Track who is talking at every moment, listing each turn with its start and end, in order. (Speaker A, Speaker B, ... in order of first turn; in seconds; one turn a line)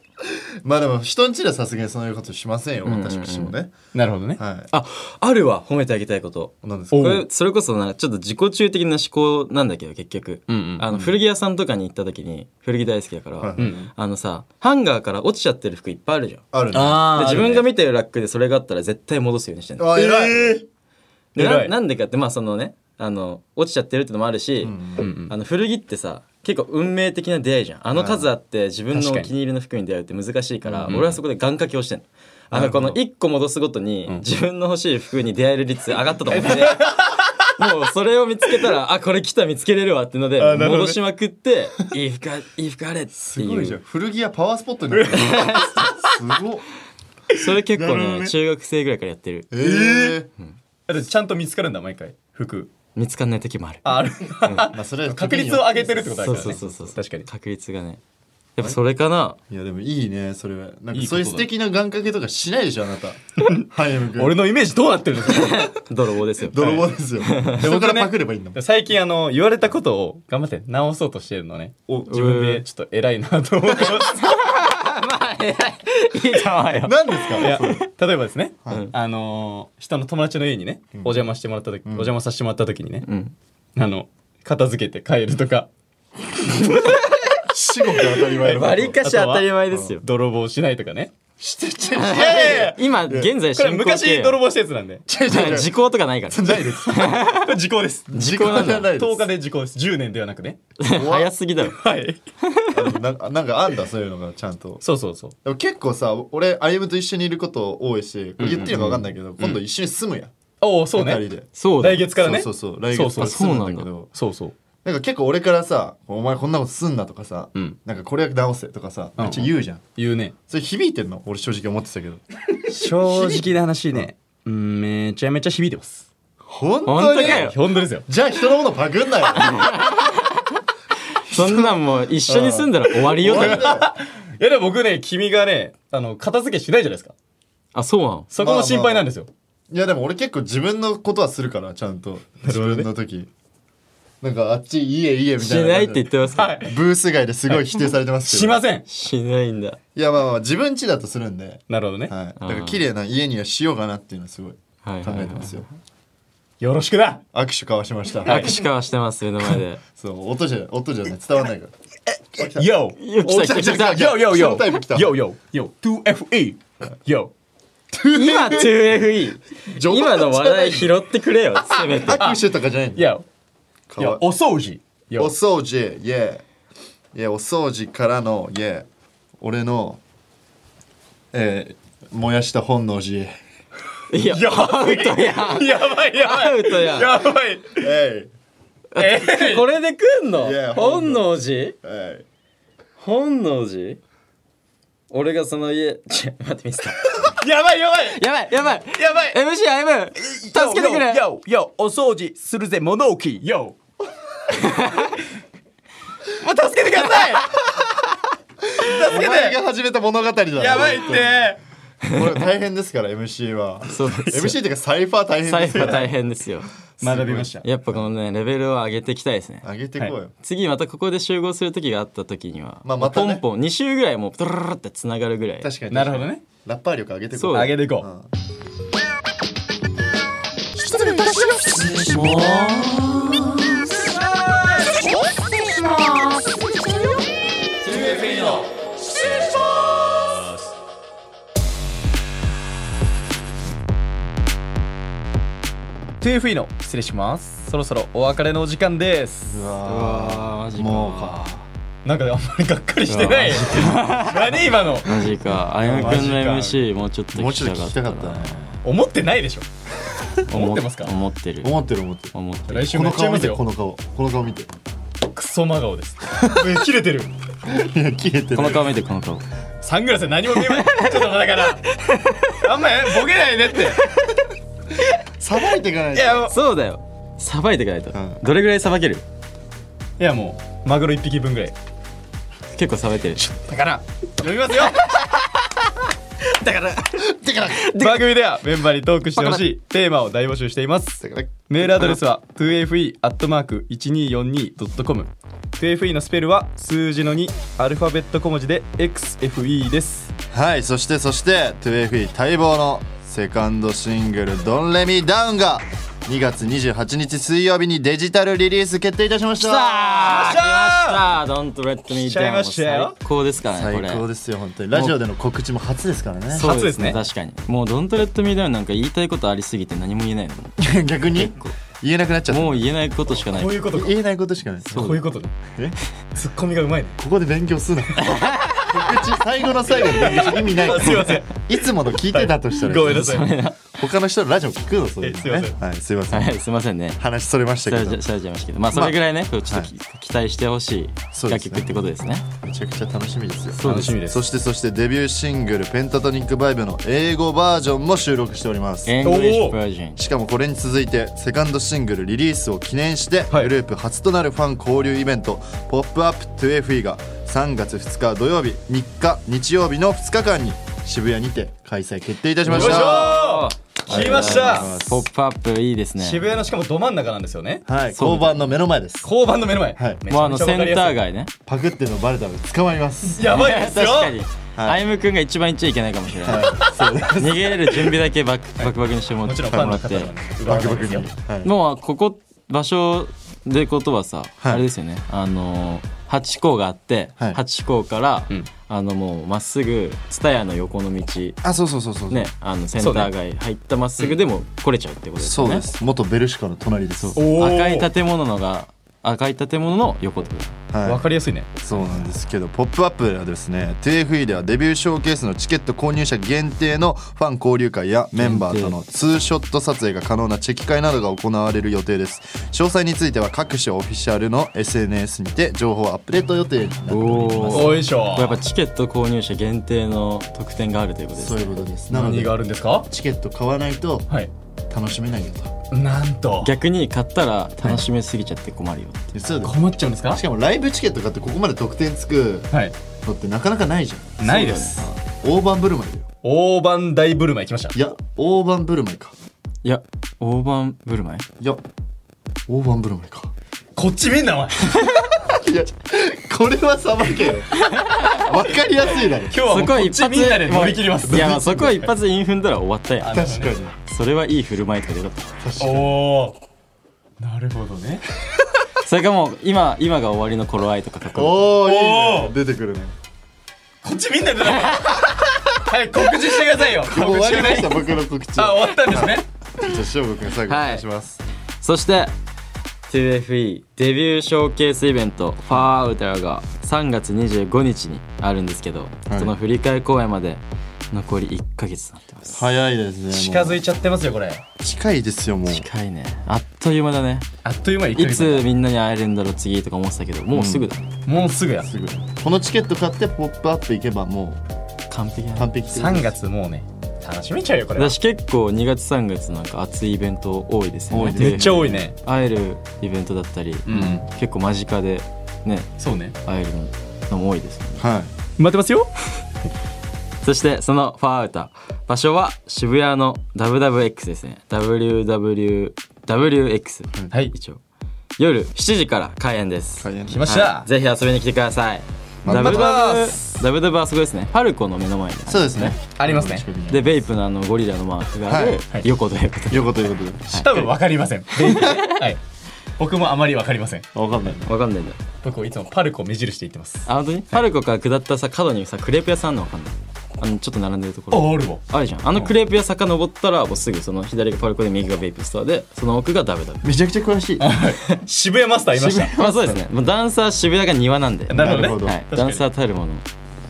Speaker A: 0.3-3.8
Speaker B: 2.9-3.5
Speaker C: 3.9-4.4
Speaker A: 4.4-4.7
Speaker B: 4.7-20.2
Speaker A: 6.6-7.2
Speaker C: 6.9-7.3
Speaker C: 10.5-10.9
Speaker A: 13.4-13.9
Speaker C: 13.6-13.9
Speaker A: 16.5-17.4
Speaker C: 16.7-17.6
Speaker A: 19.8-20.6
Speaker C: 20.0-20.6
Speaker B: 21.4-36.8
Speaker C: 21.4-21.7
Speaker A: 24.6-25.1
Speaker C: 25.0-25.3
Speaker A: 27.9-28.3
Speaker C: 28.9-29.3
Speaker C: 30.7-31.2
Speaker C: 32.5-33.0
Speaker C: 36.3-37.4
Speaker B: 37.6-43.8
Speaker C: 40.4-41.0
Speaker A: 43.2-45.5
Speaker C: 44.9-46.0
Speaker B: 45.2-46.0
Speaker A: 46.0-46.7
Speaker B: 47.3-49.5
Speaker A: 47.7-48.4
Speaker A: 49.5-50.3
Speaker C: 49.6-50.2
Speaker C: 50.9-52.7
Speaker B: 53.0-54.6
Speaker C: 53.8-57.3
Speaker A: 54.7-56.7
Speaker B: 56.2-58.0
Speaker B: 58.6-59.4
Speaker A: 59.5-64.4
Speaker C: 60.9-61.5
Speaker C: 63.4-65.7
Speaker B: 65.3-67.6
Speaker A: 66.5-68.6
Speaker C: 67.6-74.3
Speaker B: 72.1-72.6
Speaker B: 73.8-77.8
Speaker A: 76.8-77.8
Speaker C: 77.4-83.1
Speaker A: 81.0-81.3
Speaker A: 81.8-82.1
Speaker B: 83.0-83.3
Speaker C: 83.8-85.7
Speaker B: 86.5-87.5
Speaker A: 87.5-89.0
Speaker B: 88.2-90.0
Speaker C: 88.4-91.1
Speaker A: 91.4-93.3
Speaker B: 92.0-94.4
Speaker C: 92.1-92.9
Speaker C: 93.5-95.0
Speaker A: 95.1-95.7
Speaker B: 95.3-97.5
Speaker A: 96.3-97.2
Speaker C: 97.1-100.6
Speaker A: 98.1-99.3
Speaker B: 98.1-98.9
Speaker B: 100.8-101.8
Speaker A: 100.9-101.3
Speaker C: 101.7-102.2
Speaker A: 102.7-104.8
Speaker C: 104.8-105.3
Speaker A: 105.4-110.3
Speaker C: 108.4-109.6
Speaker C: 110.6-113.4
Speaker A: 110.9-111.5
Speaker B: 111.5-112.1
Speaker A: 112.1-114.1
Speaker B: 113.2-113.9
Speaker C: 114.1-114.5
Speaker A: 114.8-119.8
Speaker C: 119.2-120.3
Speaker A: 120.5-122.2
Speaker C: 122.7-126.1
Speaker A: 122.9-124.1
Speaker A: 126.5-127.5
Speaker B: 126.8-127.6
Speaker C: 127.1-128.1
Speaker A: 128.1-129.8
Speaker B: 129.3-130.5
Speaker B: 131.1-133.7
Speaker A: 131.3-133.9
Speaker C: 133.2-137.1
Speaker B: 137.8-138.3
Speaker C: 138.3-139.3
Speaker A: 138.4-139.1
Speaker A: 139.7-143.3
Speaker C: 142.4-142.9
Speaker A: 144.2-148.6
Speaker B: 145.4-146.6
Speaker C: 146.4-146.8
Speaker C: 147.5-148.9
Speaker B: 148.9-149.8
Speaker A: 149.9-155.7
Speaker C: 151.7-152.1
Speaker B: 152.4-152.8
Speaker B: 154.8-155.7
Speaker C: 156.6-157.2
Speaker A: 157.3-158.5
Speaker C: 158.2-158.6
Speaker B: 158.2-159.8
Speaker A: 160.0-161.7
Speaker A: 162.4-165.2
Speaker C: 162.4-163.0
Speaker B: 163.0-164.1
Speaker C: 163.8-167.3
Speaker A: 167.9-168.7
Speaker B: 168.1-172.3
Speaker A: 169.7-170.9
Speaker A: 171.8-173.1
Speaker C: 172.1-173.2
Speaker A: 173.9-174.2
Speaker C: 174.0-175.3
Speaker A: 175.2-176.4
Speaker A: 177.1-178.9
Speaker A: 179.4-180.0
Speaker A: 181.3-183.3
Speaker B: 184.1-187.1
Speaker C: 184.3-187.9
Speaker A: 187.8-188.3
Speaker B: 188.9-191.8
Speaker C: 189.0-189.7
Speaker A: 190.4-191.3
Speaker A: 191.8-192.2
Speaker B: 193.0-194.0
Speaker B: 195.1-197.2
Speaker C: 197.2-198.2
Speaker B: 198.1-201.2
Speaker C: 198.9-199.4
Speaker C: 200.2-203.8
Speaker B: 204.5-205.2
Speaker C: 206.3-207.5
Speaker B: 207.2-207.6
Speaker C: 208.8-209.6
Speaker A: 208.8-211.4
Speaker C: 210.6-211.6
Speaker A: 212.1-216.1
Speaker B: 213.9-214.6
Speaker B: 215.4-216.7
Speaker C: 217.0-217.6
Speaker A: 217.0-218.0
Speaker B: 217.6-219.7
Speaker A: 219.6-220.3
Speaker B: 220.4-225.7
Speaker A: 222.8-223.4
Speaker A: 225.6-228.3
Speaker C: 225.9-226.4
Speaker B: 227.4-227.8
Speaker C: 227.5-228.1
Speaker C: 231.9-232.8
Speaker C: 246.2-249.7
Speaker A: 249.5-251.7
Speaker B: 249.8-251.5
Speaker C: 252.1-255.3
Speaker B: 253.1-254.4
Speaker B: 255.0-258.8
Speaker A: 255.4-256.5
Speaker C: 255.9-256.8
Speaker A: 257.3-258.8
Speaker C: 258.8-259.7
Speaker B: 260.5-261.8
Speaker C: 260.5-261.1
Speaker A: 261.6-264.7
Speaker B: 262.3-262.9
Speaker C: 262.7-263.6
Speaker C: 265.3-267.3
Speaker A: 267.7-268.9
Speaker B: 268.5-269.4
Speaker C: 269.8-271.9
Speaker B: 270.8-271.3
Speaker B: 271.9-272.6
Speaker C: 272.6-274.0
Speaker B: 274.0-274.4
Speaker A: 275.4-276.5
Speaker C: 276.1-276.5
Speaker B: 276.5-279.2
Speaker A: 278.1-278.4
Speaker C: 280.2-281.8
Speaker B: 282.7-283.4
Speaker C: 283.4-285.0
Speaker B: 284.9-285.5
Speaker B: 286.4-288.3
Speaker A: 287.2-287.9
Speaker C: 287.9-300.3
Speaker A: 291.2-292.2
Speaker A: 300.5-310.1
Speaker B: 309.6-314.2
Speaker C: 310.2-311.2
Speaker C: 312.1-313.2
Speaker A: 313.7-316.7
Speaker B: 316.5-320.8
Speaker C: 316.6-317.2
Speaker A: 320.8-322.9
Speaker B: 321.4-321.7
Speaker B: 322.5-323.8
Speaker C: 323.4-324.2
Speaker A: 323.9-326.0
Speaker C: 324.9-325.6
Speaker C: 326.3-327.2
Speaker A: 327.2-333.4
Speaker B: 328.2-328.9
Speaker C: 330.0-333.6
Speaker B: 333.0-333.8
Speaker A: 333.9-336.6
Speaker C: 335.2-335.8
Speaker B: 336.3-337.2
Speaker A: 337.2-338.2
Speaker B: 337.9-342.5
Speaker A: 338.9-339.9
Speaker A: 341.3-342.0
Speaker A: 342.6-349.2
Speaker C: 343.8-344.4
Speaker B: 343.8-344.1
Speaker B: 349.1-350.2
Speaker C: 349.2-349.8
Speaker A: 350.2-363.4
Speaker B: 362.7-366.5
Speaker C: 362.7-364.9
Speaker A: 364.1-365.3
Speaker C: 366.2-367.9
Speaker A: 367.9-369.3
Speaker B: 368.1-368.6
Speaker C: 369.2-371.2
Speaker A: 369.9-370.2
Speaker B: 370.3-371.5
Speaker A: 371.7-373.5
Speaker C: 373.4-374.4
Speaker B: 373.5-380.3
Speaker A: 374.8-375.0
Speaker A: 376.4-377.7
Speaker C: 376.6-378.1
Speaker C: 378.8-381.3
Speaker A: 379.7-380.1
Speaker A: 380.6-381.7
Speaker B: 381.6-391.6
Speaker A: 391.6-392.5
Speaker B: 392.3-395.9
Speaker C: 393.0-393.3
Speaker A: 395.4-397.4
Speaker B: 397.2-400.8
Speaker C: 397.4-398.1
Speaker A: 400.9-401.2
Speaker C: 401.1-401.7
Speaker A: 401.8-418.0
Speaker B: 408.4-409.0
Speaker B: 417.1-421.8
Speaker C: 417.7-418.6
Speaker A: 421.4-424.3
Speaker C: 422.1-423.1
Speaker A: 424.9-425.7
Speaker C: 425.9-426.7
Speaker B: 426.6-429.2
Speaker A: 429.3-429.8
Speaker C: 429.6-430.4
Speaker A: 430.3-432.7
Speaker C: 432.7-433.0
Speaker A: 433.2-436.3
Speaker C: 434.4-435.1
Speaker B: 434.4-435.0
Speaker C: 436.4-438.0
Speaker A: 437.9-439.4
Speaker B: 439.8-441.5
Speaker A: 442.7-443.5
Speaker C: 444.0-445.1
Speaker A: 445.3-449.6
Speaker B: 447.8-448.5
Speaker C: 449.5-452.1
Speaker B: 449.6-453.4
Speaker C: 453.2-453.8
Speaker A: 453.3-454.0
Speaker B: 454.1-455.5
Speaker A: 455.6-456.2
Speaker C: 455.8-456.6
Speaker C: 457.4-458.2
Speaker B: 459.0-461.7
Speaker A: 461.4-463.1
Speaker C: 461.7-462.6
Speaker C: 464.0-469.5
Speaker A: 467.0-471.4
Speaker B: 470.7-471.1
Speaker B: 471.8-472.3
Speaker B: 473.1-482.6
Speaker A: 479.3-479.5
Speaker A: 482.5-483.8
Speaker C: 483.3-484.6
Speaker A: 484.8-485.9
Speaker B: 485.7-487.5
Speaker C: 487.6-488.7
Speaker B: 488.1-491.1
Speaker C: 491.3-491.9
Speaker A: 491.8-494.6
Speaker B: 495.1-495.7
Speaker A: 495.6-496.3
Speaker C: 495.9-498.2
Speaker B: 498.0-505.9
Speaker A: 501.1-502.1
Speaker C: 501.3-502.2
Speaker C: 503.9-504.2
Speaker A: 503.9-504.2
Speaker C: 506.0-506.4
Speaker B: 506.4-508.1
Speaker A: 508.0-508.3
Speaker C: 508.6-509.1
Speaker B: 510.4-517.8
Speaker B: 518.4-526.0
Speaker A: 520.0-520.4
Speaker C: 520.3-520.9
Speaker A: 522.4-523.0
Speaker C: 522.5-523.6
Speaker A: 525.5-527.2
Speaker C: 526.2-526.7
Speaker B: 526.9-530.9
Speaker A: 528.5-528.8
Speaker A: 529.7-530.5
Speaker C: 530.5-532.4
Speaker B: 531.6-532.2
Speaker C: 533.0-534.1
Speaker A: 534.1-534.7
Speaker B: 534.6-535.2
Speaker C: 535.4-537.6
Speaker B: 537.1-546.8
Speaker C: 541.3-541.8
Speaker A: 546.8-547.7
Speaker C: 547.6-549.8
Speaker B: 548.9-553.2
Speaker C: 551.5-552.6
Speaker A: 551.5-552.2